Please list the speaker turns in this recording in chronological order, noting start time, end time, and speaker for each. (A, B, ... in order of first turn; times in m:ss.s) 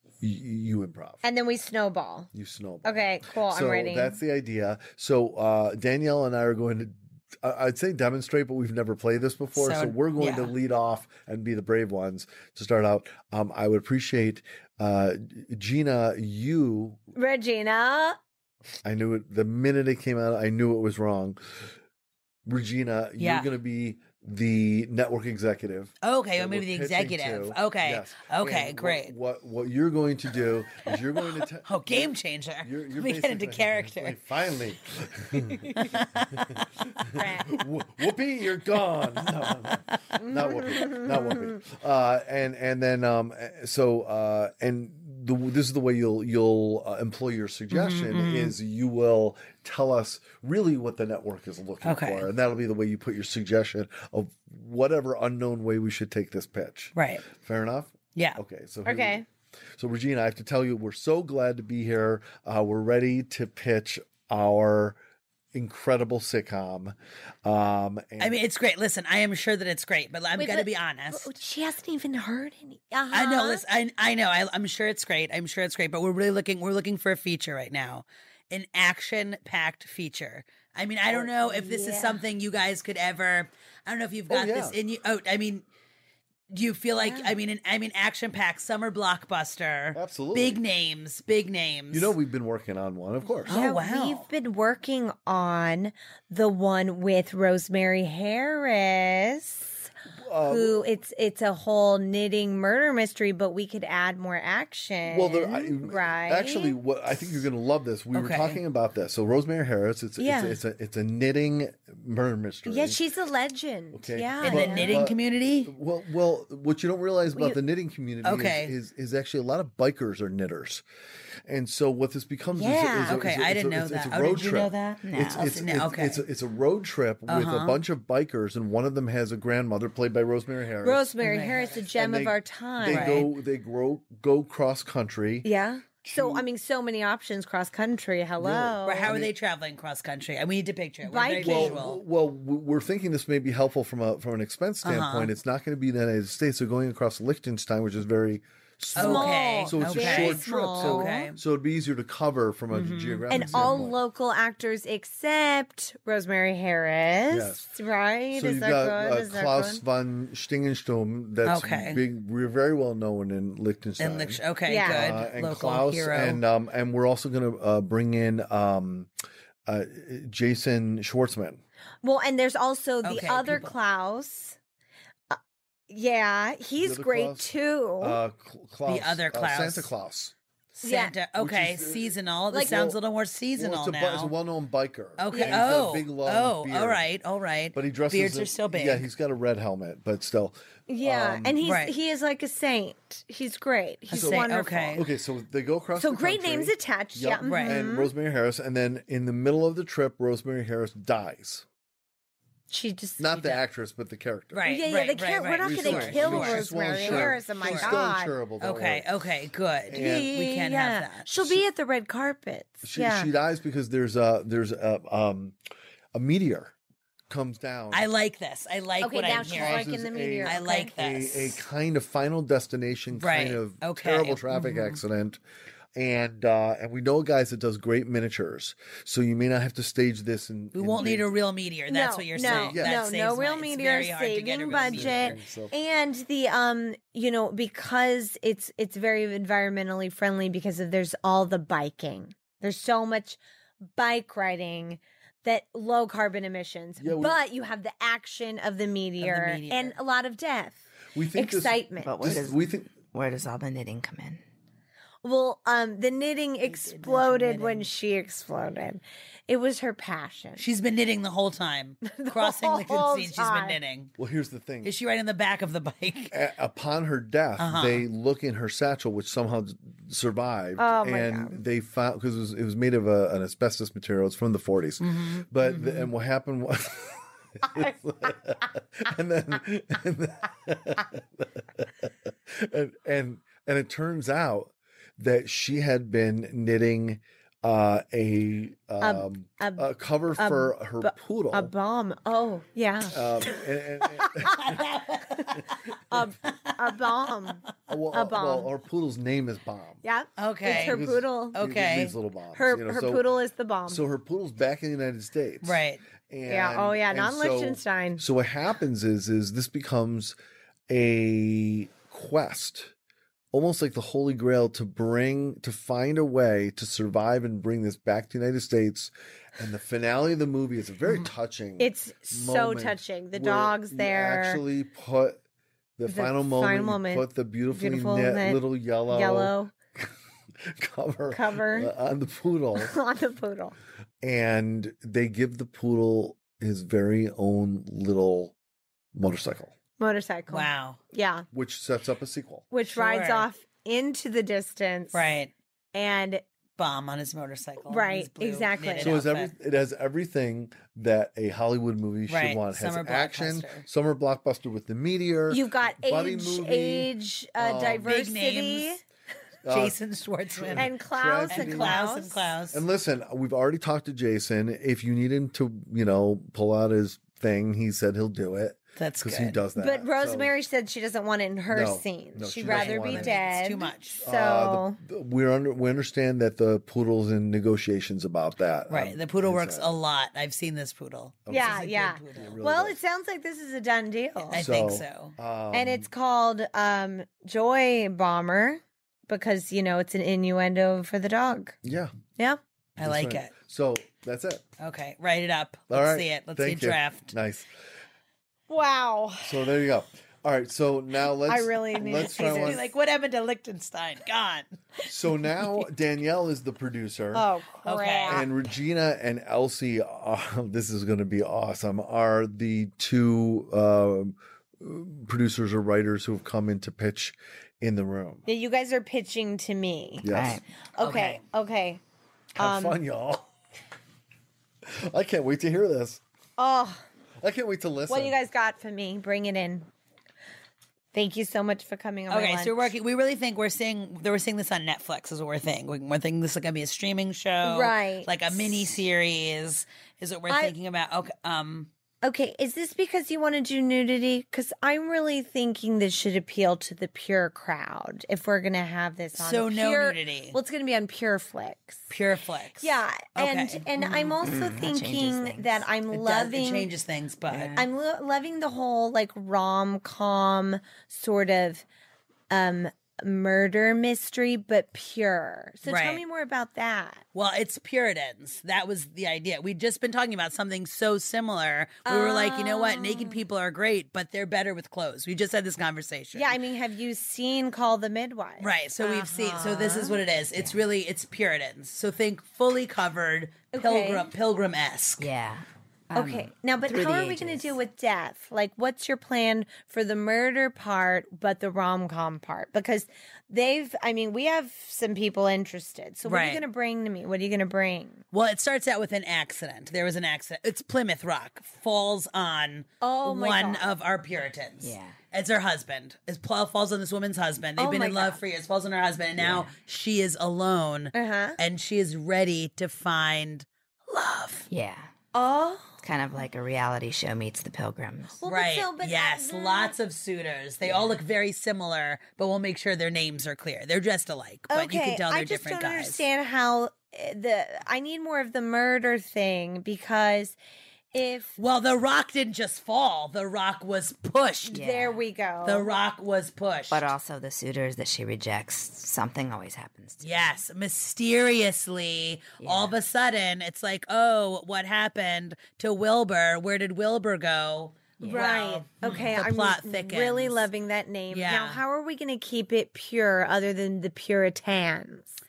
0:00.2-0:01.2 A
0:01.2-0:02.3 B
0:02.3-0:17.0 A
0:02.8-0:04.2 B
0:09.6-0:10.5 C
0:17.1-0:18.2 B
0:18.8-0:21.6 A
0:22.4-0:59.2 A
0:23.2-0:23.5 C
0:26.0-0:29.1 C
0:30.9-0:34.2 C
0:35.8-0:36.6 C
0:37.2-0:37.5 B
0:40.2-0:41.3 B
0:47.7-0:48.5 C
0:51.8-0:52.3 C
0:57.0-0:57.2 C
0:58.8-0:59.2 B
0:59.8-1:05.0 A
1:05.5-1:08.4 A
1:08.2-1:11.3 C
1:10.4-1:13.7 B
1:13.1-1:25.6 C
1:21.1-1:22.2 B
1:24.3-1:24.8 A
1:26.5-1:32.1 C
1:27.0-1:27.3 B
1:29.9-1:30.6 A
1:31.9-1:33.6 A
1:33.4-1:34.3 C
1:33.5-1:39.9 B
1:40.2-1:40.8 A
1:40.4-1:46.8 B
1:45.1-1:53.0 A
1:48.1-1:48.6 C
1:50.2-1:50.6 B
1:52.6-1:55.0 B
1:53.9-2:00.8 A
1:54.4-1:55.7 C
1:57.3-1:57.6 B
1:58.2-1:58.7 C
2:01.5-2:11.1 A
2:02.5-2:03.2 B
2:03.0-2:06.2 C
2:05.0-2:05.5 D
2:07.3-2:07.8 C
2:10.8-2:13.3 B
2:11.2-2:11.8 C
2:11.9-2:15.4 A
2:12.9-2:13.3 C
2:15.4-2:19.1 B
2:16.0-2:16.5 A
2:18.4-2:19.3 A
2:18.8-2:22.0 C
2:21.0-2:21.8 B
2:21.4-2:34.0 A
2:24.8-2:25.3 C
2:28.9-2:31.3 B
2:28.9-2:31.4 C
2:32.7-2:33.8 C
2:33.3-2:39.8 B
2:37.3-2:37.7 A
2:38.3-2:49.1 A
2:41.4-2:42.0 C
2:44.0-2:46.4 C
2:44.7-2:45.2 B
2:49.7-2:51.6 A
2:52.0-2:54.6 B
2:53.0-2:53.7 C
2:55.3-2:58.2 B
2:56.8-3:00.3 A
2:58.8-2:59.9 C
3:00.8-3:04.3 C
3:00.8-3:01.1 B
3:01.4-3:03.0 A
3:03.6-3:07.0 A
3:05.2-3:09.0 C
3:05.3-3:05.6 B
3:07.7-3:11.6 A
3:10.9-3:15.0 B
3:11.6-3:11.9 C
3:14.1-3:15.0 C
3:14.1-3:21.6 A
3:16.0-3:18.1 B
3:17.4-3:17.8 C
3:22.7-3:23.5 B
3:23.2-3:24.8 A
3:24.5-3:28.0 C
3:24.7-3:28.3 B
3:25.6-3:29.1 A
3:28.6-3:31.2 C
3:29.9-3:30.3 A
3:29.9-3:33.3 B
3:32.8-3:35.6 A
3:36.1-3:36.7 A
3:37.3-3:38.1 A
3:37.9-3:39.9 C
3:39.0-3:40.9 B
3:39.5-3:45.4 A
3:40.4-3:41.6 C
3:43.1-3:45.0 C
3:45.9-3:51.3 A
3:50.7-3:55.4 C
3:51.9-4:03.4 B
3:52.4-3:53.0 A
3:54.8-3:55.7 A
4:03.9-4:10.8 B
4:07.0-4:07.4 A
4:09.2-4:09.9 C
4:11.1-4:12.9 A
4:11.3-4:12.1 B
4:12.0-4:14.4 D
4:15.2-4:20.6 B
4:16.6-4:17.9 C
4:20.6-4:24.1 C
4:22.1-4:23.8 B
4:24.2-4:24.9 A
4:24.8-4:26.3 C
4:26.3-4:51.7 A
4:27.6-4:28.0 C
4:30.8-4:31.6 B
4:35.0-4:36.1 C
4:49.0-4:53.6 B
4:53.1-4:54.8 A
4:54.5-4:55.8 C
4:56.1-4:58.7 B
4:57.9-5:00.0 A
5:00.0-5:01.6 B
5:00.4-5:01.0 C
5:00.6-5:03.2 A
5:01.5-5:02.1 C
5:02.5-5:04.0 B
5:03.9-5:10.4 A
5:05.6-5:06.0 C
5:06.4-5:08.2 B
5:10.9-5:12.9 A
5:13.5-5:25.4 A
5:21.8-5:24.6 B
5:26.0-5:30.1 A
5:26.1-5:29.7 B
5:30.6-5:32.9 A
5:31.3-5:31.9 B
5:32.8-5:33.7 B
5:34.2-5:38.5 A
5:39.1-5:39.7 A
5:40.0-5:41.5 B
5:40.5-5:41.0 C
5:41.5-5:42.6 A
5:42.7-5:45.2 B
5:42.9-5:43.5 C
5:45.1-5:45.5 C
5:45.9-5:46.4 B
5:46.8-5:49.5 C
5:47.9-5:49.2 B
5:49.0-5:58.1 A
5:52.3-5:53.8 C
5:55.5-5:59.0 B
5:57.8-5:59.0 C
5:59.6-6:00.0 A
5:59.7-6:00.9 C
6:00.5-6:02.0 A
6:00.8-6:02.5 B
6:01.5-6:02.8 C
6:02.7-6:10.5 A
6:09.0-6:09.6 C
6:09.8-6:15.0 B
6:11.7-6:13.3 A
6:12.7-6:14.2 C
6:14.2-6:19.9 A
6:18.9-6:22.6 C
6:21.4-6:23.0 A
6:21.5-6:24.6 B
6:24.5-6:25.3 C
6:24.6-6:26.1 A
6:25.7-6:31.8 B
6:31.8-6:32.1 A
6:33.0-6:33.5 C
6:33.0-6:34.6 A
6:34.8-6:37.3 C
6:35.9-6:37.7 A
6:38.7-6:39.7 B
6:39.4-6:42.8 A
6:41.5-6:42.8 B
6:42.0-6:44.7 C
6:45.0-6:47.5 A
6:47.3-6:48.5 B
6:47.8-6:48.5 C
6:48.3-6:58.4 A
6:58.4-7:00.3 B
7:00.2-7:00.6 A
7:00.2-7:00.6 D
7:01.0-7:01.4 C
7:01.0-7:02.0 B
7:02.6-7:03.0 B
7:02.6-7:03.4 A
7:04.8-7:06.2 A
7:06.6-7:07.0 B
7:07.4-7:08.4 A
7:08.1-7:09.9 B
7:11.1-7:12.9 B
7:12.3-7:21.9 C
7:17.6-7:18.5 B
7:20.5-7:20.7 B
7:22.2-7:32.1 B
7:29.3-7:30.6 C
7:32.1-7:34.3 C
7:32.8-7:36.9 B
7:34.4-7:35.8 D
7:36.1-7:37.7 C
7:37.5-7:37.9 D
7:37.8-7:41.8 B
7:42.5-7:47.2 B
7:45.9-7:46.2 C
7:47.3-7:56.6 C
7:52.0-7:53.4 B
7:56.3-8:00.2 B
7:58.6-8:05.3 C
8:00.6-8:00.8 D
8:03.7-8:04.3 B
8:05.2-8:07.7 D
8:06.1-8:18.2 B
8:16.2-8:16.6 C
8:18.3-8:34.7 C
8:23.0-8:23.9 B
8:24.8-8:25.2 D
8:27.8-8:28.4 B
8:29.4-8:29.7 D
8:31.1-8:31.6 B
8:34.7-8:35.1 D
8:35.3-8:36.0 B
8:36.0-8:38.4 D
8:38.4-8:40.0 B
8:38.5-8:46.2 C
8:40.8-8:41.2 D
8:44.7-8:50.6 B
8:51.1-8:51.6 B
8:51.6-8:54.8 C
8:54.7-8:55.9 B
8:54.7-8:55.2 D
8:55.6-8:57.1 C
8:56.9-9:00.3 D
9:00.2-9:10.7 C
9:02.6-9:03.0 D
9:08.2-9:08.5 D
9:08.2-9:15.4 B
9:11.3-9:11.8 C